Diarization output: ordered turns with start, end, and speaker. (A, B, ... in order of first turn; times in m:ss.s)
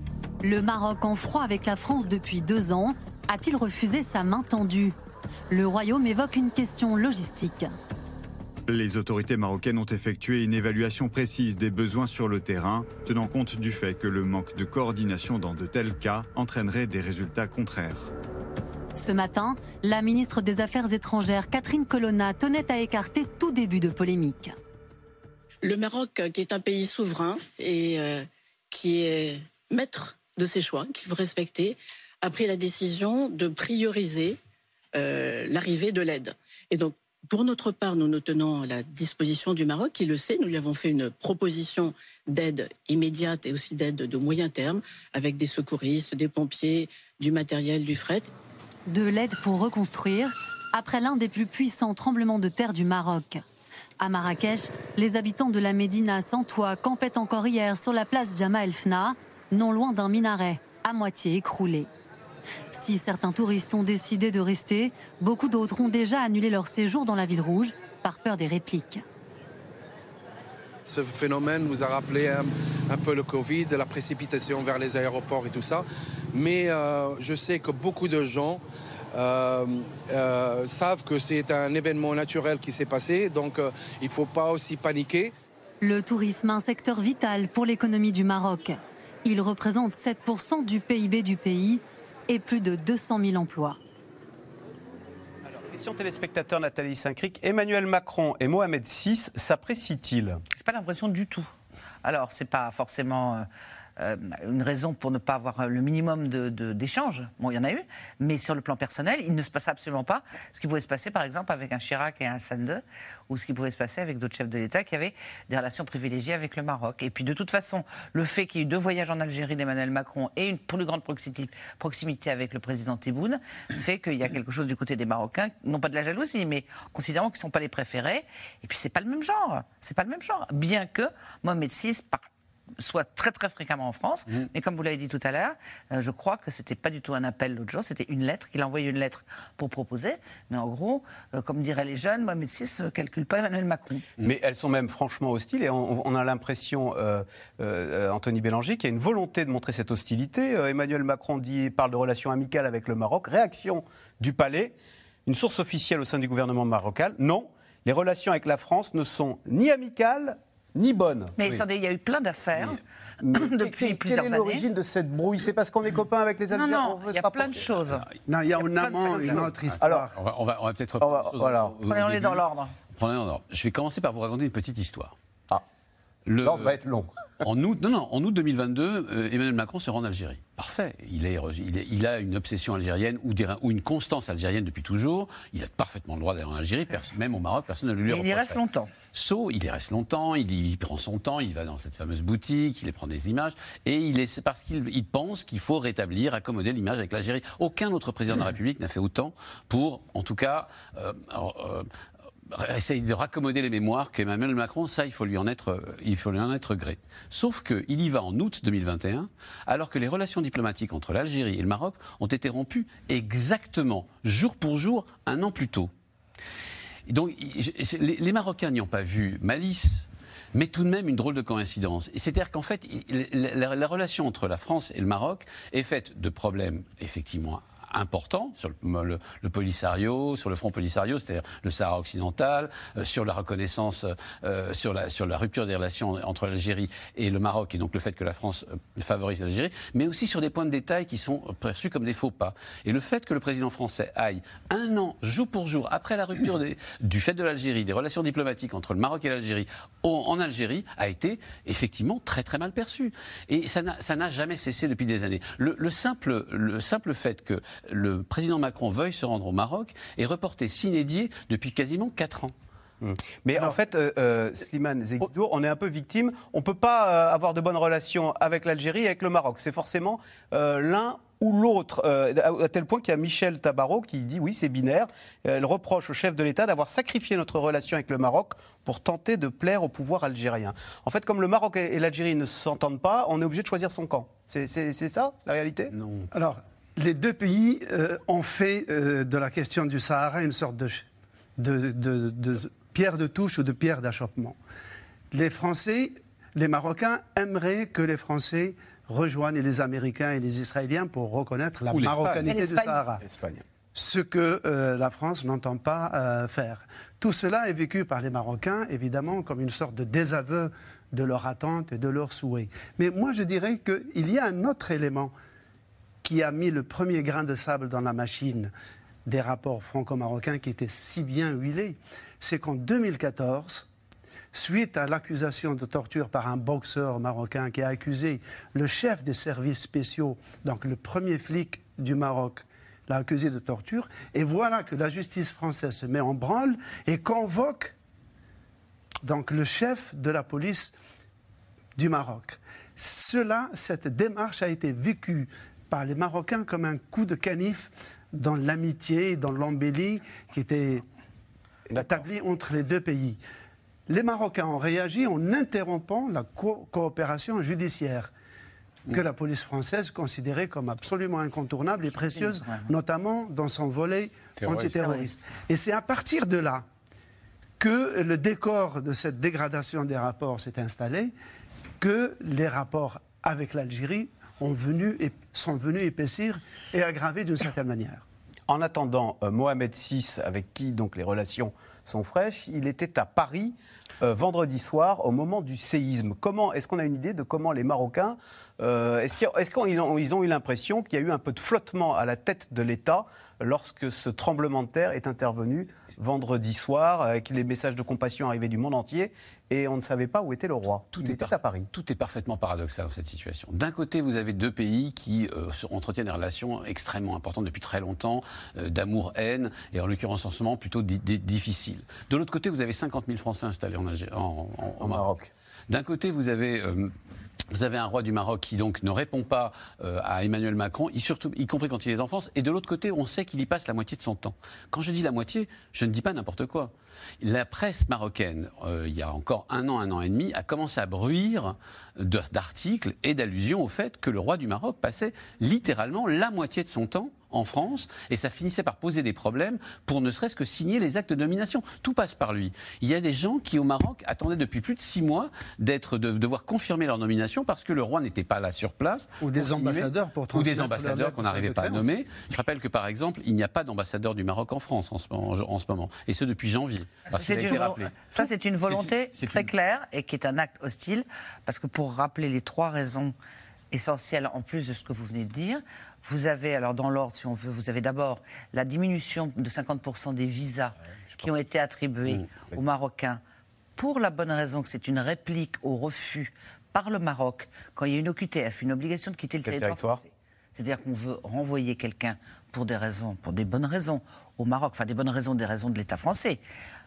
0:00.4-0:04.9 A
0:05.5-0:07.7 A
0:08.7-0:18.1 B
0:18.9-0:24.6 A
0:25.6-0:34.4 C
0:34.9-0:48.3 C
0:48.9-0:53.4 A
0:54.0-1:01.9 A
1:02.7-1:09.0 A
1:10.8-1:18.6 D
1:19.1-1:25.3 D
1:25.8-1:33.8 A
1:35.4-1:40.4 E
1:40.5-1:41.5 F
1:42.0-1:43.5 F
1:44.0-2:12.3 F
2:12.8-2:24.0 F
2:24.2-2:34.7 E
2:35.2-2:41.3 E
2:41.4-2:44.6 F
2:43.2-2:47.7 E
2:46.5-2:48.0 F
2:48.3-2:50.1 G
2:48.6-2:49.6 F
2:49.8-2:50.1 E
2:50.1-2:55.1 H
2:51.0-2:51.7 E
2:51.8-2:52.7 F
2:56.2-2:56.8 H
2:56.4-2:57.1 E
2:57.4-3:08.6 H
3:08.0-3:08.9 F
3:09.1-3:21.9 H
3:22.5-3:35.9 H
3:37.1-4:22.5 H
4:23.0-4:45.9 E
4:45.9-4:46.3 H
4:46.3-4:51.0 G
4:51.6-4:54.6 G
4:55.3-5:03.2 G
5:01.9-5:02.5 H
5:02.5-5:03.6 E
5:02.6-5:02.8 F
5:03.9-5:15.3 G
5:16.2-5:18.7 G
5:19.2-5:23.8 G
5:24.5-5:37.9 G
5:39.2-5:40.9 G
5:42.0-5:51.0 G
5:51.9-5:52.2 E
5:51.9-5:53.4 G
5:54.1-5:58.3 G
5:59.1-6:06.8 G
6:02.2-6:02.9 F
6:04.6-6:04.9 H
6:04.9-6:05.3 F
6:07.8-6:11.3 G
6:12.0-6:18.2 G
6:18.7-6:41.9 E
6:41.1-6:55.3 H
6:55.0-6:55.5 E
6:55.9-6:57.1 H
6:57.7-7:39.7 H
7:29.4-7:32.1 G
7:37.3-7:43.3 F
7:37.4-7:38.0 E
7:43.9-7:53.4 F
7:54.0-8:06.6 F
7:59.6-8:00.2 E